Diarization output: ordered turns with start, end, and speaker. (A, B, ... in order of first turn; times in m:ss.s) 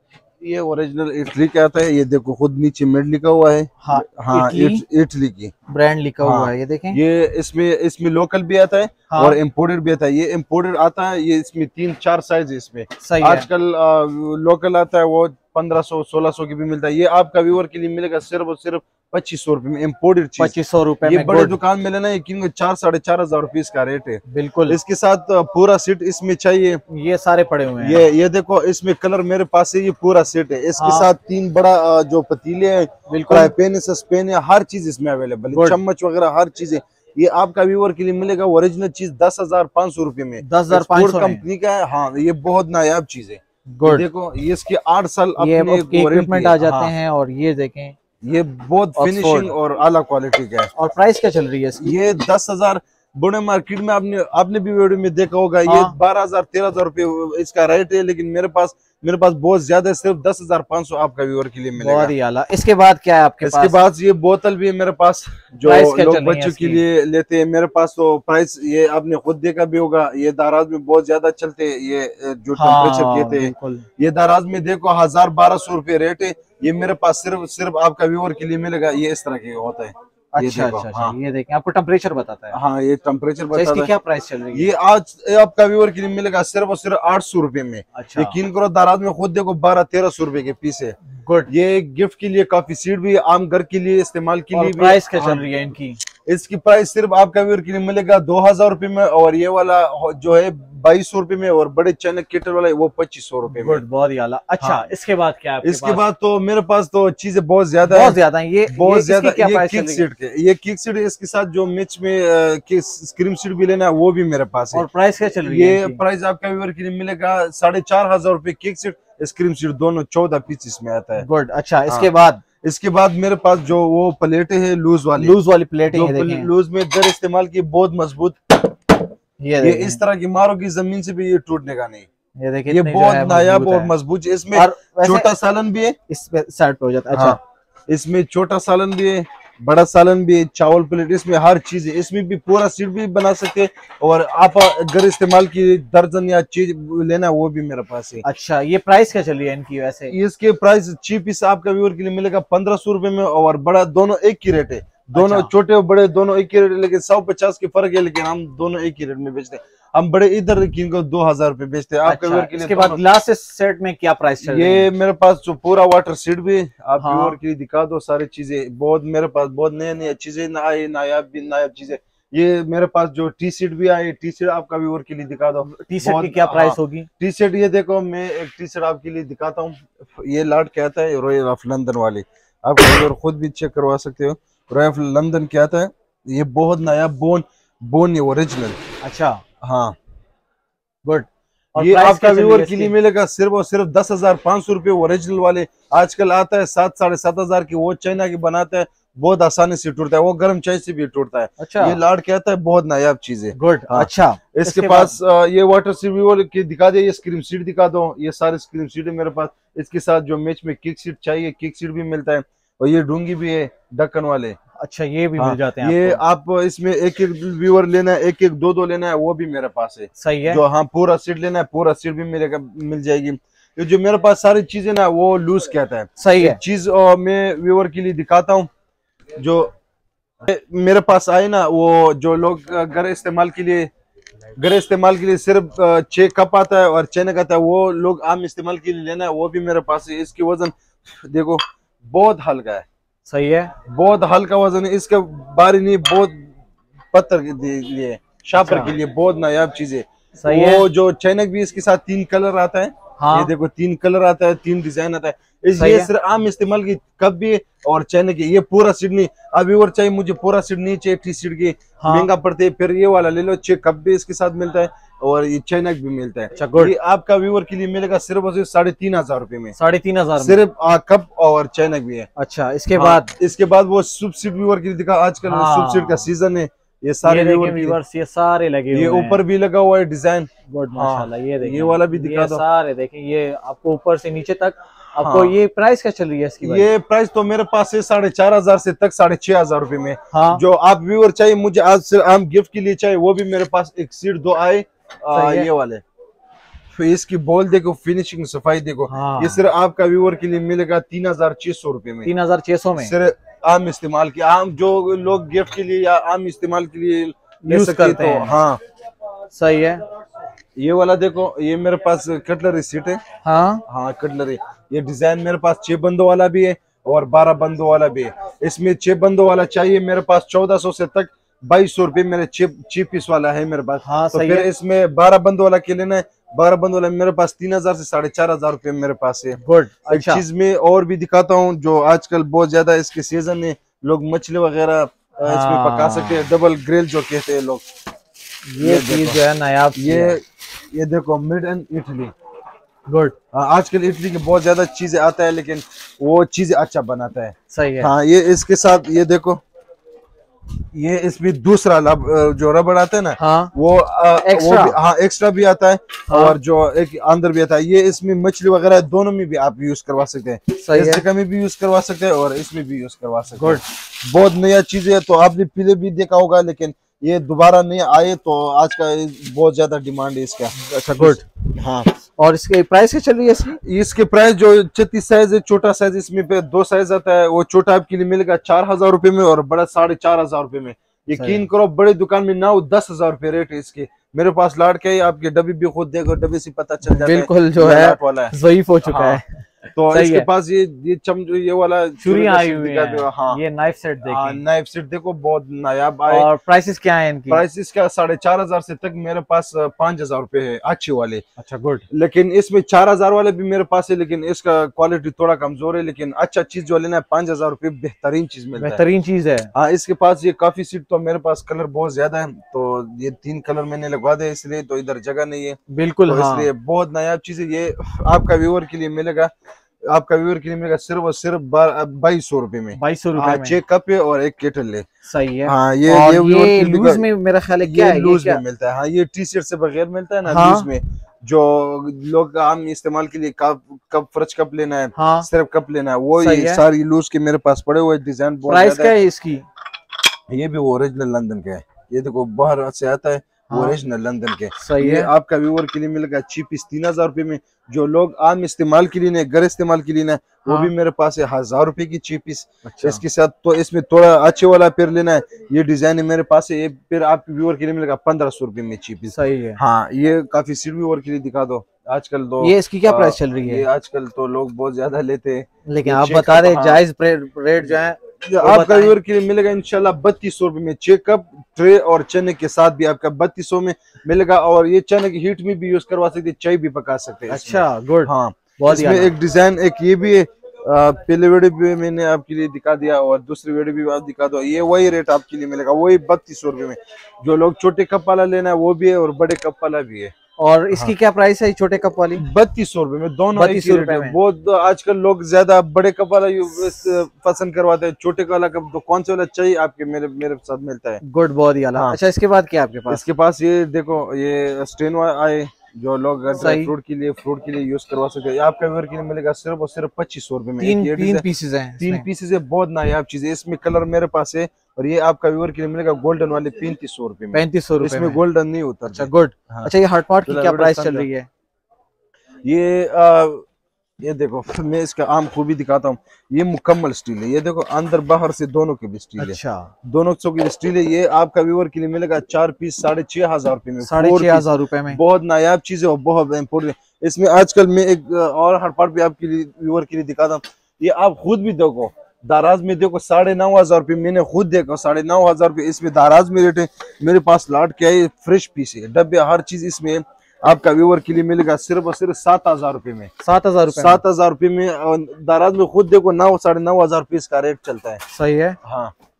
0:00.4-0:05.5 A
0:03.8-0:04.8 B
0:05.7-0:07.0 B
0:06.2-0:26.8 A
0:09.1-0:09.4 B
0:13.0-0:13.5 B
0:20.4-0:21.6 B
0:24.3-0:24.8 B
0:26.9-0:28.0 B
0:27.8-0:46.9 A
0:30.8-0:31.1 B
0:33.1-0:33.5 B
0:35.5-0:35.8 B
0:40.4-0:41.4 B
0:43.7-0:44.0 B
0:45.4-0:47.9 B
0:48.2-0:50.7 A
0:49.0-0:49.5 B
0:50.7-0:51.9 B
0:51.8-1:02.1 A
0:55.7-0:55.9 B
1:01.8-1:03.8 B
1:03.4-1:21.2 A
1:05.6-1:06.8 B
1:12.5-1:13.8 B
1:20.3-1:22.6 B
1:22.5-1:23.9 A
1:23.5-1:24.7 B
1:24.5-1:31.0 A
1:27.9-1:28.3 B
1:31.1-1:31.5 B
1:31.5-1:35.5 A
1:34.5-1:36.0 B
1:36.2-1:43.8 A
1:43.5-1:46.0 B
1:44.6-1:44.9 A
1:45.6-1:54.8 A
1:47.8-1:50.0 B
1:54.7-1:56.0 B
1:55.4-2:01.2 A
2:01.2-2:02.4 B
2:02.6-2:05.4 A
2:05.2-2:06.5 B
2:05.9-2:08.9 A
2:09.4-2:10.0 B
2:09.6-2:12.1 A
2:12.4-2:13.9 B
2:12.7-2:16.0 A
2:14.5-2:15.3 B
2:16.1-2:17.4 B
2:17.1-2:28.2 A
2:28.2-2:30.1 B
2:30.1-2:43.0 A
2:35.1-2:35.5 B
2:42.0-2:44.9 B
2:44.4-3:08.8 A
2:47.0-2:47.4 B
2:55.6-2:57.1 B
3:09.0-3:09.4 B
3:09.6-3:10.0 A
3:11.0-3:12.9 B
3:11.8-3:34.6 A
3:21.6-3:22.0 B
3:23.5-3:25.2 B
3:34.8-3:36.2 B
3:35.4-3:48.7 A
3:40.2-3:40.6 B
3:46.2-3:46.6 B
3:49.4-3:49.7 A
3:50.4-3:53.9 A
3:54.6-4:02.8 A
4:03.3-4:03.7 B
4:03.8-4:06.5 A
4:07.1-4:29.7 A
4:08.6-4:08.9 B
4:10.4-4:10.8 B
4:13.2-4:13.5 B
4:15.8-4:16.1 B
4:22.0-4:22.3 B
4:26.6-4:26.9 B
4:29.7-4:30.6 B
4:30.4-4:32.3 A
4:32.4-4:33.3 B
4:33.0-4:38.0 A
4:35.4-4:36.3 B
4:37.2-4:39.4 B
4:38.9-4:42.6 A
4:40.7-4:46.9 B
4:45.2-4:45.6 A
4:46.6-4:56.0 A
4:50.3-4:50.6 B
4:55.3-4:55.7 B
4:56.9-5:02.3 A
4:59.1-4:59.6 B
5:02.2-5:03.1 B
5:03.0-5:08.8 A
5:07.6-5:08.6 B
5:09.5-5:10.0 B
5:10.8-5:13.2 A
5:13.4-5:13.8 B
5:13.9-5:37.8 A
5:24.0-5:24.7 B
5:29.6-5:30.4 B
5:35.4-5:36.5 B
5:38.7-5:40.4 B
5:38.8-5:39.4 A
5:40.0-5:42.3 A
5:43.1-5:43.3 B
5:43.5-5:49.6 A
5:47.7-5:48.1 B
5:50.9-6:12.1 A
5:53.4-5:53.7 B
5:54.4-5:55.0 B
5:56.3-5:56.6 B
6:00.8-6:01.2 B
6:10.7-6:11.4 B
6:12.4-6:13.8 B
6:13.8-6:28.5 A
6:21.3-6:21.6 B
6:27.0-6:29.4 B
6:29.0-6:29.4 A
6:29.9-6:33.6 A
6:30.1-6:30.5 B
6:32.2-6:34.6 B
6:34.2-6:36.5 A
6:36.3-6:37.6 B
6:37.5-6:41.4 A
6:41.6-6:42.0 B
6:42.1-6:49.0 A
6:48.8-6:49.7 B
6:49.7-6:59.5 A
6:55.9-6:56.7 B
7:00.1-7:05.0 A
7:02.9-7:03.8 B
7:05.2-7:08.6 B
7:05.6-7:07.2 A
7:07.8-7:19.1 A
7:10.4-7:10.9 B
7:15.2-7:15.5 B
7:16.4-7:16.8 B
7:18.7-7:19.6 B
7:20.5-7:47.0 A
7:23.7-7:24.0 B
7:24.8-7:25.3 B
7:30.6-7:30.9 B
7:32.8-7:33.2 B
7:39.3-7:39.8 B
7:42.6-7:43.8 B
7:45.9-7:49.1 B
7:48.4-8:10.3 A
7:57.5-7:59.3 B
8:10.6-8:12.4 B
8:12.3-8:21.2 A
8:13.5-8:14.4 B
8:21.2-8:23.2 B
8:23.1-8:31.4 A
8:26.5-8:26.9 B
8:30.8-8:32.2 B
8:32.0-8:39.9 A
8:37.5-8:38.4 B
8:39.0-8:41.5 B
8:40.5-8:41.3 A
8:42.6-8:43.6 A
8:44.2-9:13.3 A
8:49.4-8:49.9 B
8:54.0-8:55.2 B
9:13.4-9:14.2 B
9:13.9-9:18.2 A
9:18.3-9:18.8 B
9:18.8-9:19.1 A